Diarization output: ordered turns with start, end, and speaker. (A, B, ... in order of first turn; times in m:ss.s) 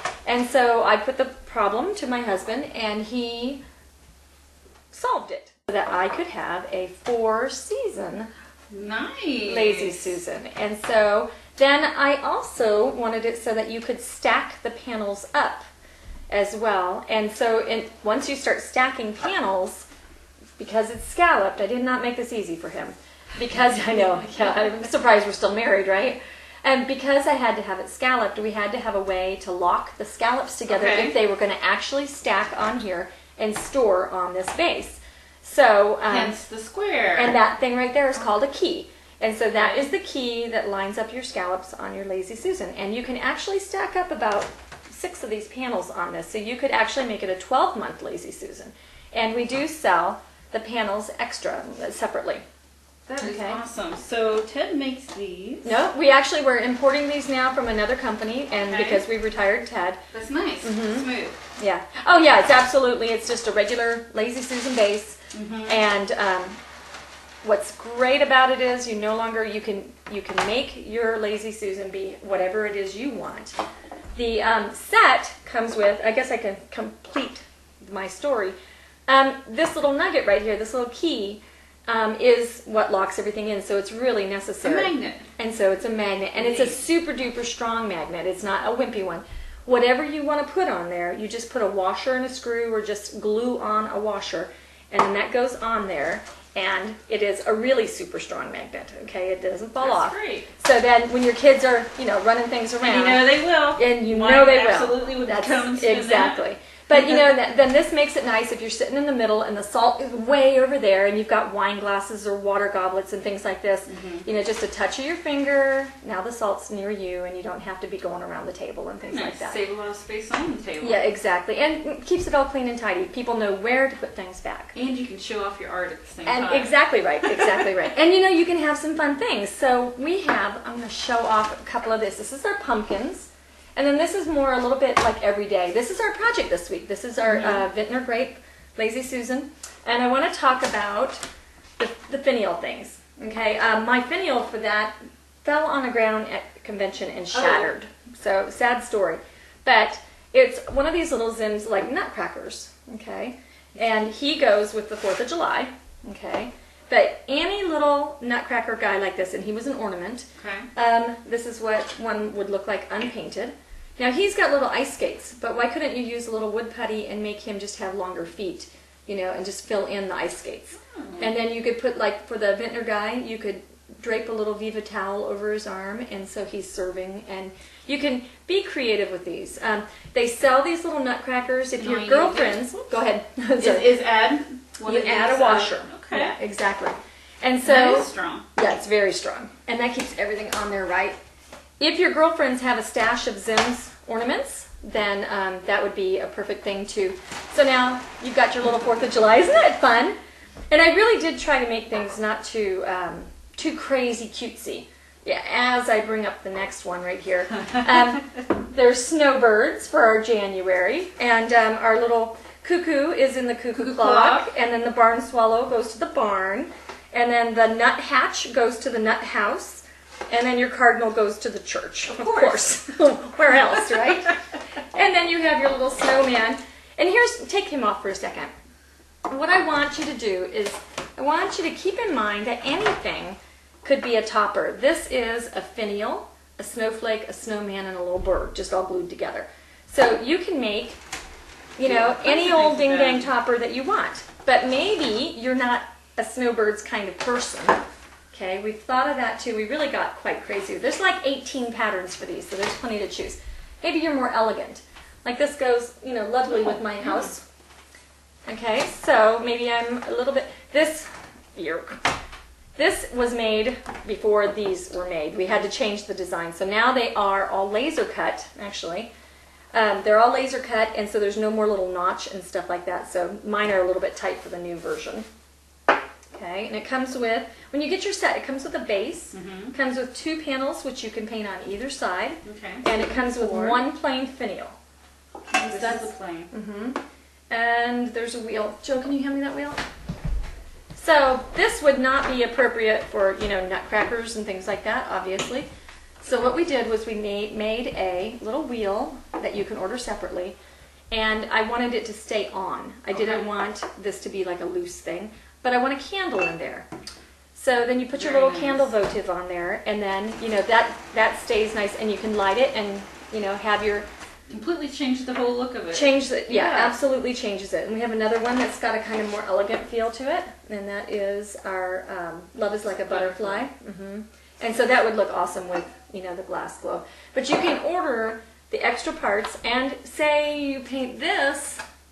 0:00.2-0:03.6 A
0:04.9-0:08.3 A
0:08.7-0:10.1 B
0:09.4-0:15.6 A
0:16.3-0:19.9 A
0:20.6-0:36.4 A
0:30.7-0:31.1 B
0:36.1-0:37.4 B
0:37.2-0:52.4 A
0:39.5-0:39.9 B
0:53.1-0:55.8 B
0:53.2-0:53.6 A
0:55.6-1:00.0 A
0:58.5-0:59.0 B
1:00.1-1:01.4 B
1:00.6-1:06.6 A
1:05.3-1:05.8 B
1:07.4-1:13.6 A
1:14.1-1:18.6 A
1:19.1-1:59.6 A
1:24.6-1:25.3 B
1:26.4-1:26.8 B
1:39.8-1:40.5 B
1:42.8-1:46.4 B
1:53.9-1:54.2 B
1:59.1-2:01.0 B
2:00.8-2:04.7 A
2:04.7-2:06.7 B
2:06.2-2:21.2 A
2:07.2-2:07.6 B
2:17.3-2:17.6 B
2:21.8-3:03.9 A
2:27.3-2:27.7 B
2:40.4-2:40.7 B
3:01.7-3:02.8 B
3:03.6-3:06.4 B
3:04.8-3:11.2 A
3:07.6-3:08.5 B
3:11.8-3:20.2 A
3:20.7-3:44.3 A
3:33.7-3:34.5 B
3:42.1-3:42.7 B
3:44.9-3:48.5 A
3:49.3-4:01.0 A
4:01.8-4:07.8 A
4:01.8-4:03.3 B
4:08.3-4:17.4 A
4:18.5-4:22.0 A
4:22.8-4:29.1 A
4:29.7-4:35.2 A
4:36.3-4:44.8 A
4:39.3-4:39.7 B
4:42.4-4:43.8 B
4:45.5-4:46.5 B
4:45.6-4:49.8 A
4:50.9-4:55.7 A
4:56.2-5:00.6 A
5:01.1-5:06.9 A
5:03.1-5:03.4 B
5:07.5-5:14.1 A
5:08.1-5:08.9 B
5:14.5-5:17.0 B
5:15.9-5:31.8 A
5:23.1-5:23.6 B